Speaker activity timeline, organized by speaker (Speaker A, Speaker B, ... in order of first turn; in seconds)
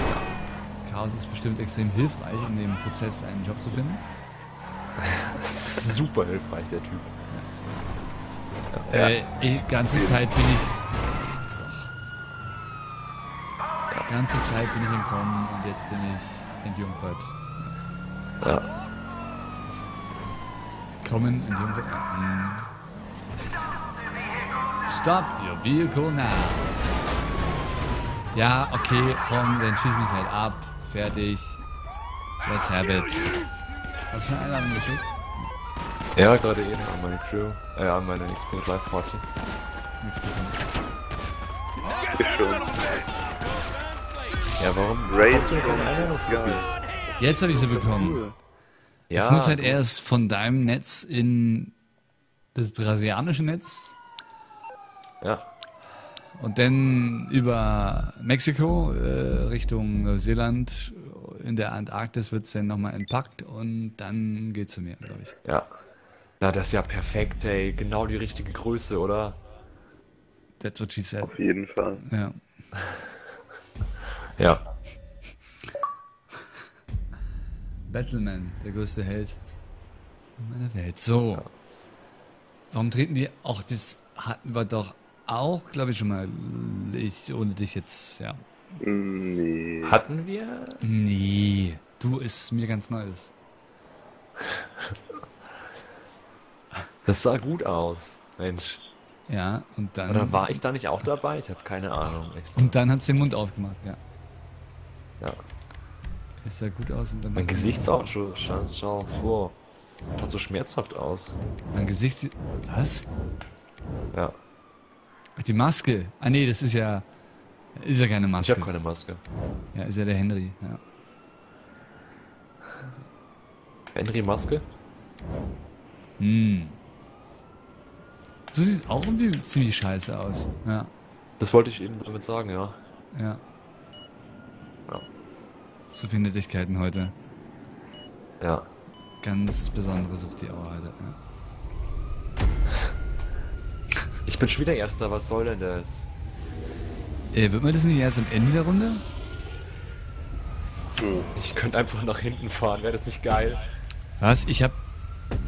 Speaker A: 0.8-4.0, 8.9-11.9, 14.0-17.5, 21.0-22.7, 24.9-26.7, 28.3-31.6, 32.4-33.3, 34.1-35.5, 40.0-40.6, 47.2-48.2, 49.1-51.7, 52.5-54.0, 56.4-65.3, 70.6-71.3, 72.0-72.4, 77.9-79.4, 80.4-81.5, 82.7-88.4, 90.8-93.3, 99.3-100.6, 102.5-104.0, 106.4-108.0, 111.7-113.1, 115.3-117.0, 117.7-118.7, 119.7-120.8, 126.2-126.8, 128.5-130.9, 133.1-133.4, 135.9-137.1, 139.2-141.2, 147.3-149.0, 154.2-154.8
Speaker B: 5.0-7.1, 8.7-9.1, 18.4-18.7, 36.1-39.2, 44.6-46.7, 49.1-49.8, 55.2-55.5, 66.4-69.4, 74.4-74.7, 89.8-90.8, 97.0-98.8, 100.0-102.8, 107.3-109.5, 110.1-111.4, 118.4-119.2, 123.9-124.7, 131.4-132.8, 138.4-138.7, 144.2-146.1, 151.3-153.7
Speaker C: 9.9-10.2, 42.1-42.7, 45.1-48.3, 71.2-72.0, 88.8-90.0, 151.0-151.3